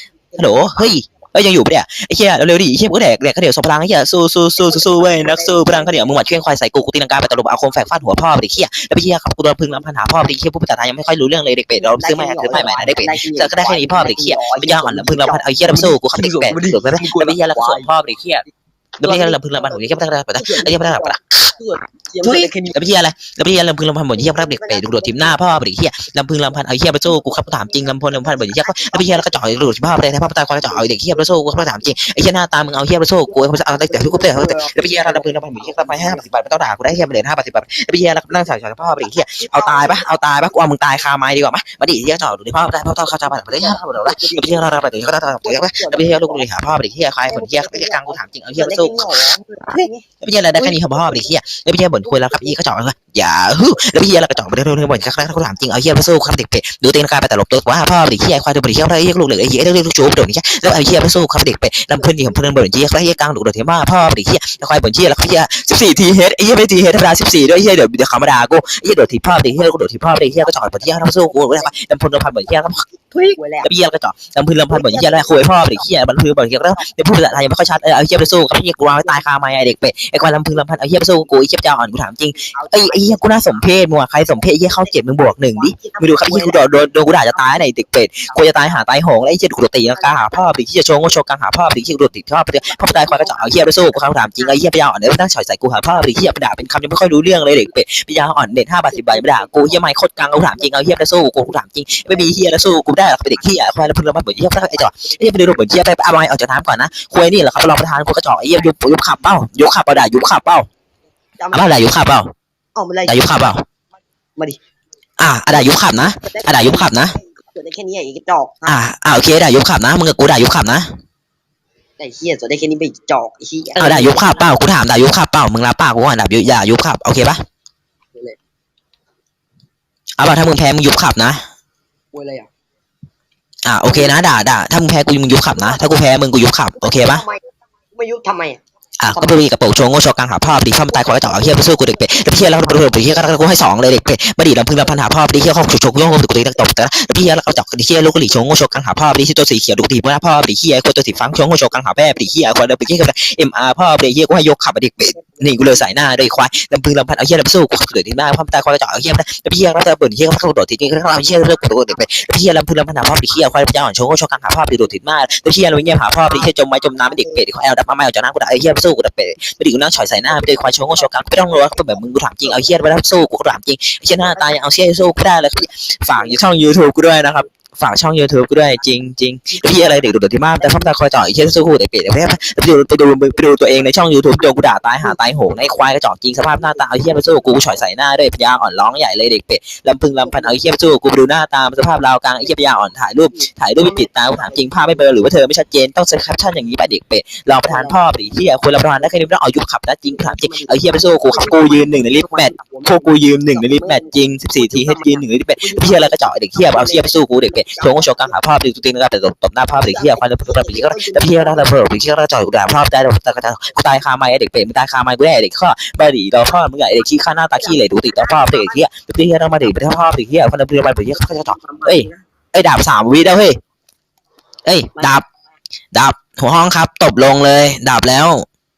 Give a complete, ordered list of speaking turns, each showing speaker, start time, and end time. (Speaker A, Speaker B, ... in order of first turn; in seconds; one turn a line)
Speaker A: 0.3-18.4
Speaker B: 0.4-0.7
Speaker B: 4.6-6.1
Speaker B: 11.7-17.9
Speaker A: 19.0-21.5
Speaker B: 19.0-22.8
Speaker A: 22.2-110.7
Speaker B: 24.1-25.5
Speaker B: 27.1-29.9
Speaker B: 30.7-31.6
Speaker B: 33.3-36.2
Speaker B: 39.0-40.0
Speaker B: 43.4-44.8
Speaker B: 45.4-46.5
Speaker B: 47.3-51.3
Speaker B: 52.0-52.6
Speaker B: 61.9-62.5
Speaker B: 70.6-71.7
Speaker B: 73.4-73.7
Speaker B: 74.7-75.8
Speaker B: 76.5-77.8
Speaker B: 78.9-79.2
Speaker B: 80.3-81.3
Speaker B: 82.5-83.7
Speaker B: 84.6-85.0
Speaker B: 85.5-87.8
Speaker B: 89.9-90.4
Speaker B: 92.6-94.6
Speaker B: 98.9-101.0
Speaker B: 102.1-102.7
Speaker B: 111.4-111.8
Speaker A: 111.5-112.3
Speaker B: 112.7-113.3
Speaker A: 113.0-113.6
Speaker A: 115.2-117.2
Speaker B: 115.5-118.8
Speaker A: 118.7-120.9
Speaker B: 122.0-124.5
Speaker A: 123.8-127.4
Speaker A: 130.2-131.4
Speaker B: 132.1-132.5
Speaker A: 133.6-137.2
Speaker B: 133.9-134.2
Speaker B: 135.5-136.0
Speaker B: 136.8-139.4
Speaker A: 139.0-223.6
Speaker B: 140.8-143.2
Speaker B: 155.2-155.9
Speaker B: 166.3-167.4
Speaker B: 170.3-172.0
Speaker B: 174.2-174.6
Speaker B: 176.1-176.4
Speaker B: 179.5-181.0
Speaker B: 186.5-187.8
Speaker B: 190.2-190.6
Speaker B: 193.2-195.1
Speaker B: 197.7-198.0
Speaker B: 200.1-208.4
Speaker B: 209.8-211.7
Speaker B: 217.5-218.8
Speaker B: 221.1-222.2
Speaker A: 224.6-225.2
Speaker A: 225.9-228.4